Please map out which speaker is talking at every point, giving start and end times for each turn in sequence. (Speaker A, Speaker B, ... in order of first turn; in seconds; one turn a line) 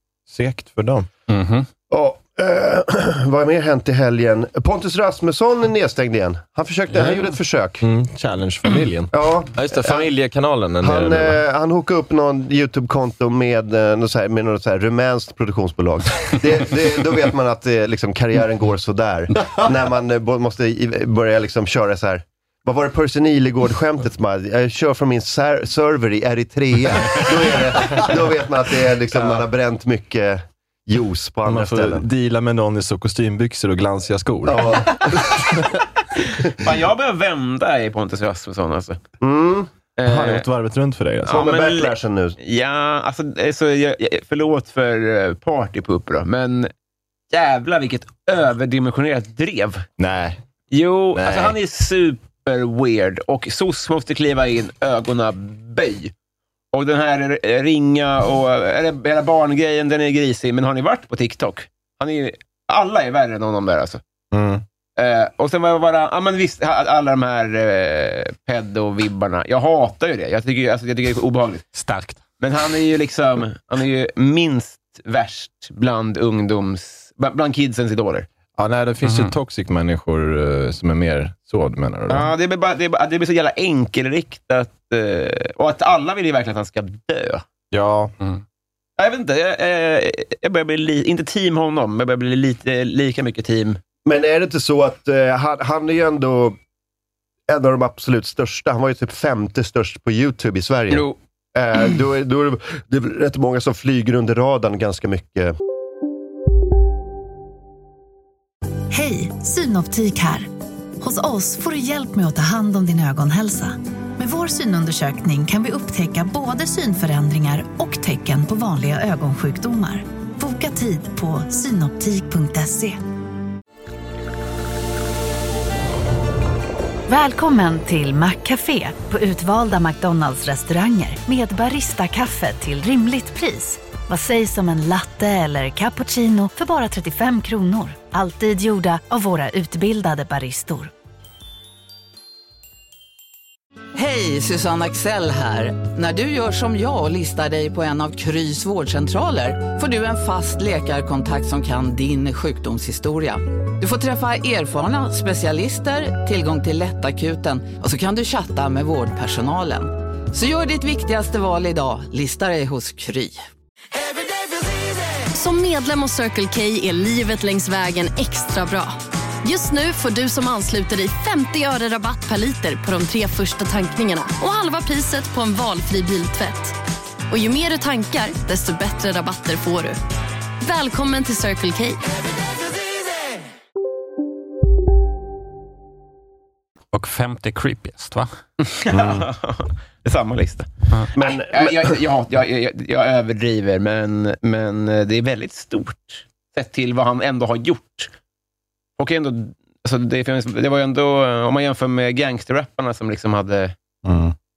Speaker A: 0.3-1.1
Speaker B: 1.3-1.7
Speaker C: 1.9-7.8
Speaker B: 6.9-7.2
Speaker A: 7.8-9.1
Speaker D: 9.0-11.3
Speaker C: 9.1-10.1
Speaker C: 10.8-32.0
Speaker A: 31.4-34.9
Speaker C: 34.5-35.4
Speaker E: 36.1-39.0
Speaker C: 39.2-39.7
Speaker E: 40.0-40.4
Speaker A: 40.0-41.4
Speaker E: 41.2-46.7
Speaker C: 41.3-42.4
Speaker E: 47.3-49.9
Speaker A: 50.0-50.4
Speaker E: 50.7-56.1
Speaker A: 51.1-51.5
Speaker E: 56.7-64.0
Speaker A: 64.3-64.6
Speaker E: 65.0-71.7
Speaker B: 71.7-72.2
Speaker E: 72.4-78.3
Speaker A: 78.6-82.3
Speaker B: 79.0-79.3
Speaker E: 82.1-87.4
Speaker A: 87.7-88.1
Speaker E: 89.0-93.8
Speaker C: 94.0-96.6
Speaker C: 97.5-105.5
Speaker E: 100.9-101.2
Speaker F: 108.9-123.0
Speaker F: 127.1-140.9
Speaker G: 143.9-163.4
Speaker H: 165.3-176.8
Speaker H: 177.3-180.0
Speaker H: 180.6-182.0
Speaker B: 186.9-188.3
Speaker E: 188.6-198.1
Speaker C: 191.1-191.9
Speaker E: 199.0-203.7
Speaker A: 204.1-204.3